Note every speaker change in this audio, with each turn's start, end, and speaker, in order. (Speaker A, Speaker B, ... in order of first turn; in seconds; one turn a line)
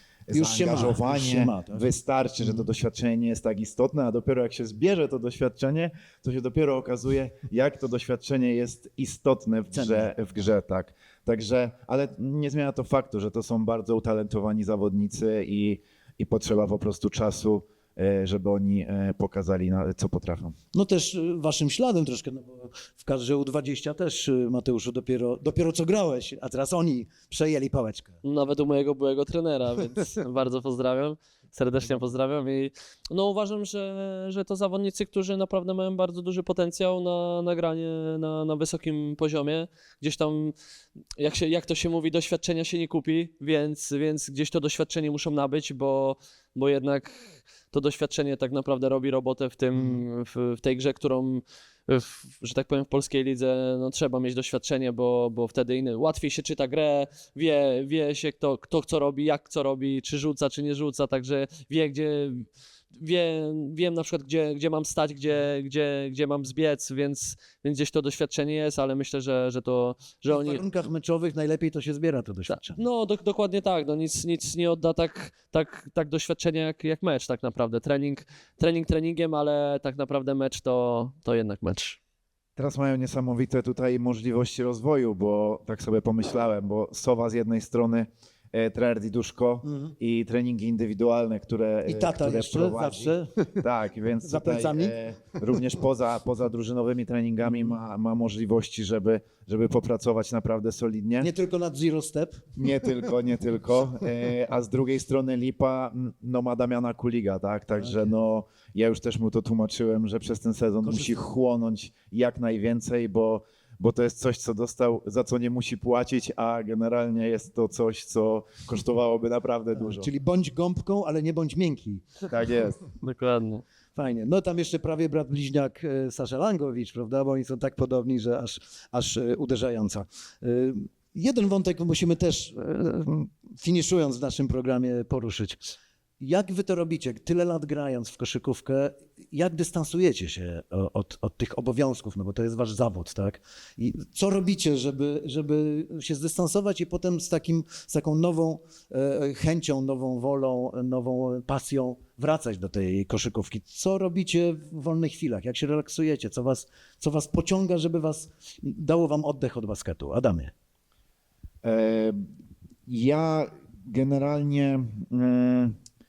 Speaker A: 0.3-20.6
Speaker B: 0.3-1.9
Speaker B: 9.7-10.1
Speaker B: 20.7-28.2
Speaker C: 28.2-40.5
Speaker C: 41.2-70.6
Speaker B: 49.8-50.0
Speaker B: 70.3-72.8
Speaker C: 72.5-82.0
Speaker A: 82.6-101.3
Speaker B: 89.7-89.9
Speaker B: 91.8-93.6
Speaker B: 94.2-95.0
Speaker B: 101.2-102.5
Speaker A: 102.6-120.1
Speaker B: 107.8-108.2
Speaker B: 110.8-111.3
Speaker B: 119.8-122.3
Speaker A: 122.3-122.8
Speaker C: 123.0-123.6
Speaker B: 124.0-160.5
Speaker A: 161.6-162.3
Speaker A: 162.9-165.8